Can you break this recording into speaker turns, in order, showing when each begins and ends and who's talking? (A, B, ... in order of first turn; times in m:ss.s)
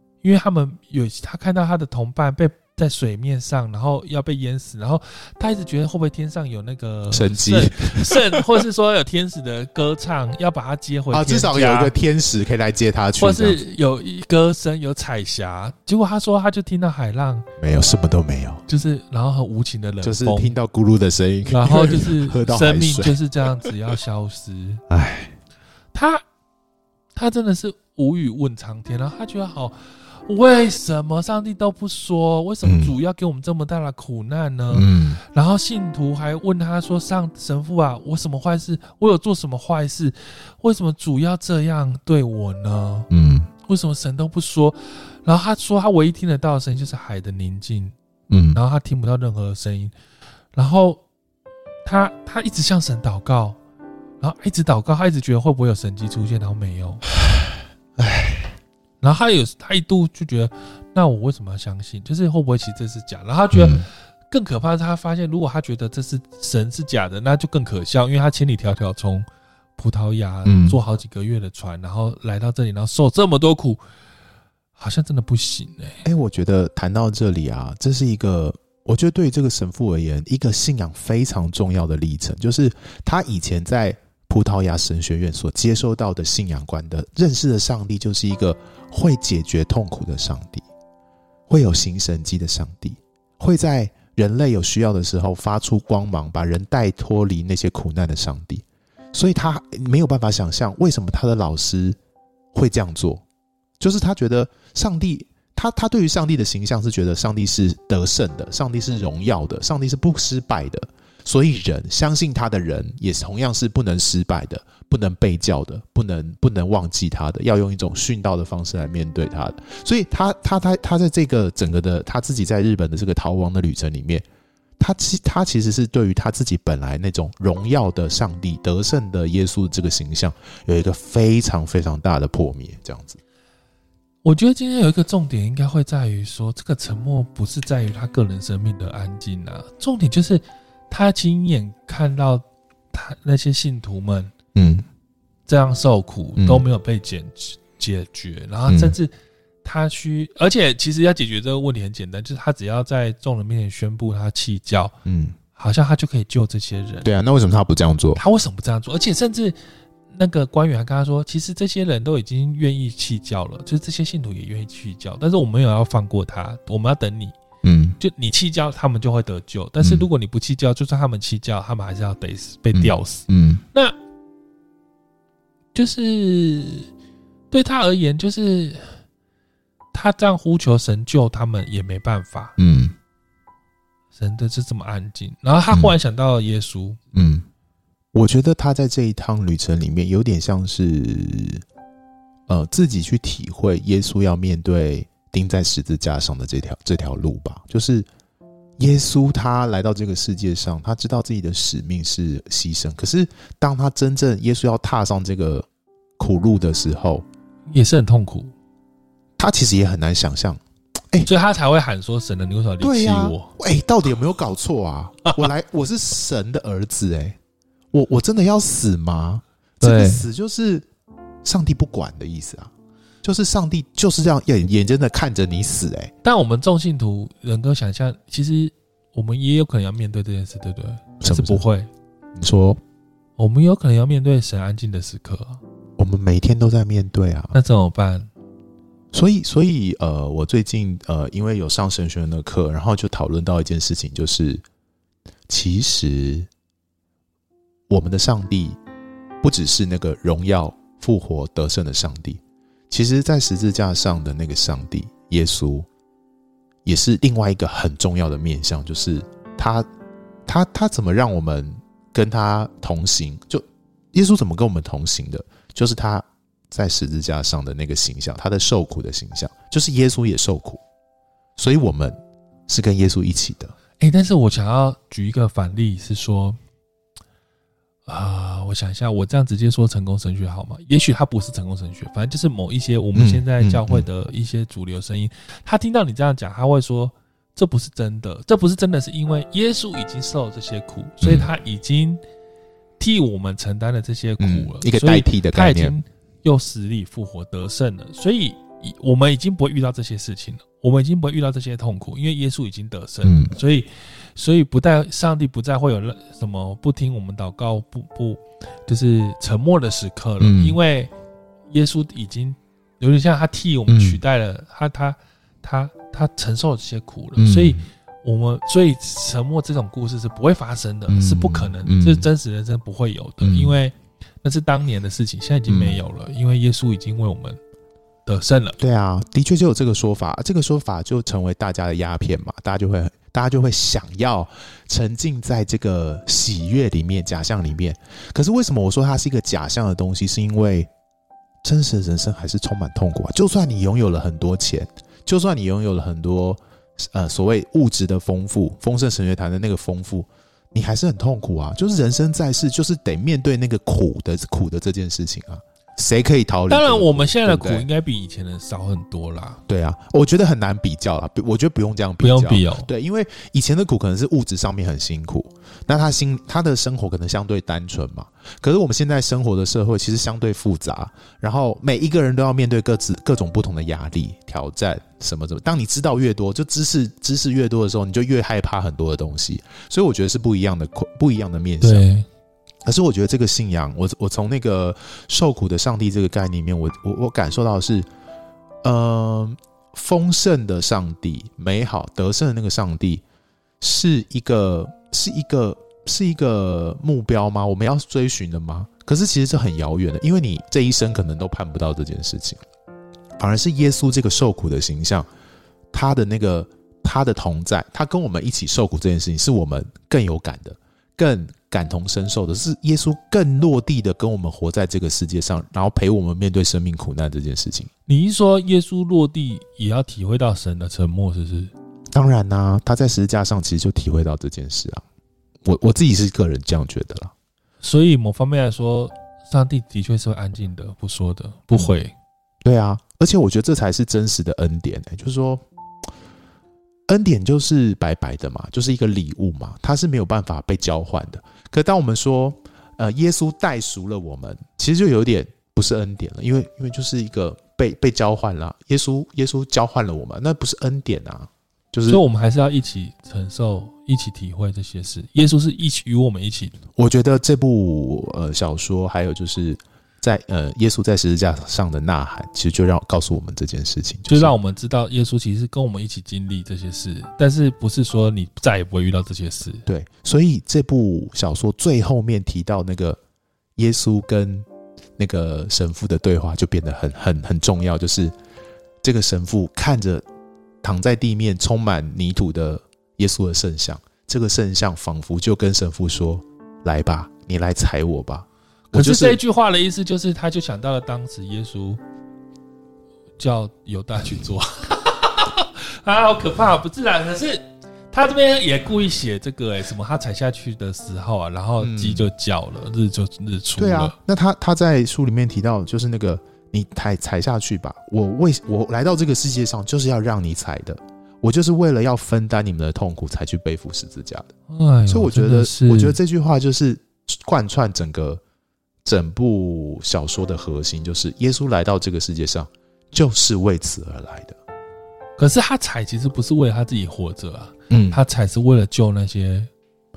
0:00.2-0:11.9 A
0:07.1-0:08.6 B
0:11.1-0:13.6 B
0:13.2-0:17.5 A
0:17.6-0:18.6 B
0:18.7-0:20.5 A
0:20.0-0:23.7 B
0:21.5-0:24.8 A
0:24.9-0:25.3 B
0:25.9-0:26.2 A
0:27.1-0:43.1 A
0:32.6-0:32.9 B
0:34.7-0:35.2 B
0:43.1-0:43.5 B
0:43.6-0:47.9 A
0:48.3-0:48.6 B
0:48.5-0:49.9 A
0:50.5-0:51.0 A
0:51.8-0:53.6 A
0:54.2-0:57.0 A
0:58.0-0:58.5 B
0:59.0-1:09.2 A
1:03.5-1:03.8 B
1:09.8-1:13.8 A
1:10.4-1:10.8 B
1:14.8-1:16.0 A
1:16.0-1:30.6 B
1:31.5-1:42.0 B
1:42.5-1:43.2 B
1:43.8-2:04.2 B
2:04.8-2:13.2 B
2:14.2-2:24.3 A
2:24.5-2:24.8 B
2:25.5-2:29.1 A
2:26.4-2:26.6 B
2:28.7-2:29.0 B
2:29.6-2:34.9 A
2:35.0-2:35.4 B
2:35.5-2:37.1 A
2:37.0-2:38.2 B
2:38.2-2:39.6 A
2:40.1-2:47.4 A
2:47.6-2:48.0 B
2:48.0-2:54.0 A
2:49.8-2:50.1 B
2:52.7-2:53.6 B
2:55.7-2:56.9 A
2:57.5-2:58.9 A
2:59.9-3:02.6 A
3:02.6-3:02.9 B
3:04.1-3:07.0 A
3:07.1-3:07.4 B
3:08.1-3:11.6 B
3:12.5-3:18.1 B
3:18.8-3:25.7 B
3:26.2-3:27.2 B
3:27.7-3:28.5 A
3:29.4-3:31.3 B
3:31.2-3:33.5 A
3:32.8-3:37.4 B
3:37.9-3:40.8 B
3:39.8-3:40.3 A
3:41.4-3:42.7 B
3:43.2-3:46.1 B
3:46.2-3:51.9 A
3:51.2-3:51.6 B
3:52.4-3:52.8 B
3:53.4-3:55.6 A
3:56.0-3:57.6 B
3:57.5-3:58.3 A
3:59.1-4:04.6 B
4:05.5-4:06.5 B
4:07.9-4:08.8 B
4:09.4-4:15.9 B
4:16.8-4:19.8 B
4:20.5-4:30.8 B
4:31.6-4:32.2 B
4:32.7-4:33.7 B
4:34.0-4:36.6 A
4:38.1-4:52.2 A
4:43.1-4:44.0 B
4:51.2-4:51.5 B
4:53.0-5:11.1 A
4:54.4-4:55.9 B
5:03.2-5:03.5 B
5:10.4-5:10.8 B
5:11.7-5:27.6 A
5:13.9-5:14.2 B
5:17.4-5:17.8 B
5:21.1-5:22.3 B
5:23.4-5:23.8 B
5:25.7-5:26.0 B
5:28.2-5:28.8 A
5:28.8-5:40.9 B
5:41.6-5:57.9 B
5:56.7-5:59.6 A
5:59.7-6:22.1 B
6:02.2-6:02.9 A
6:21.8-6:22.2 A
6:22.8-6:28.1 B
6:28.8-6:33.2 B
6:33.8-6:42.6 B
6:43.4-6:45.3 B
6:45.9-6:57.9 B
6:58.1-7:01.7 A
7:02.1-7:05.0 B
7:05.6-7:07.3 B
7:07.8-7:12.1 A
7:12.6-7:15.6 B
7:17.1-7:32.2 B
7:32.0-7:36.8 A
7:36.9-7:44.5 B
7:44.3-7:49.8 A
7:49.8-7:53.2 B
7:53.8-7:54.6 B
7:55.2-7:58.3 B
7:59.0-8:00.2 B
8:00.8-8:09.4 B
8:08.9-8:12.0 A
8:13.4-8:24.2 A
8:21.8-8:22.3 B
8:23.8-8:34.5 B
8:34.7-8:36.2 A
8:35.1-8:38.4 B
8:39.0-8:44.6 B
8:45.4-8:49.7 A
8:47.9-8:48.2 B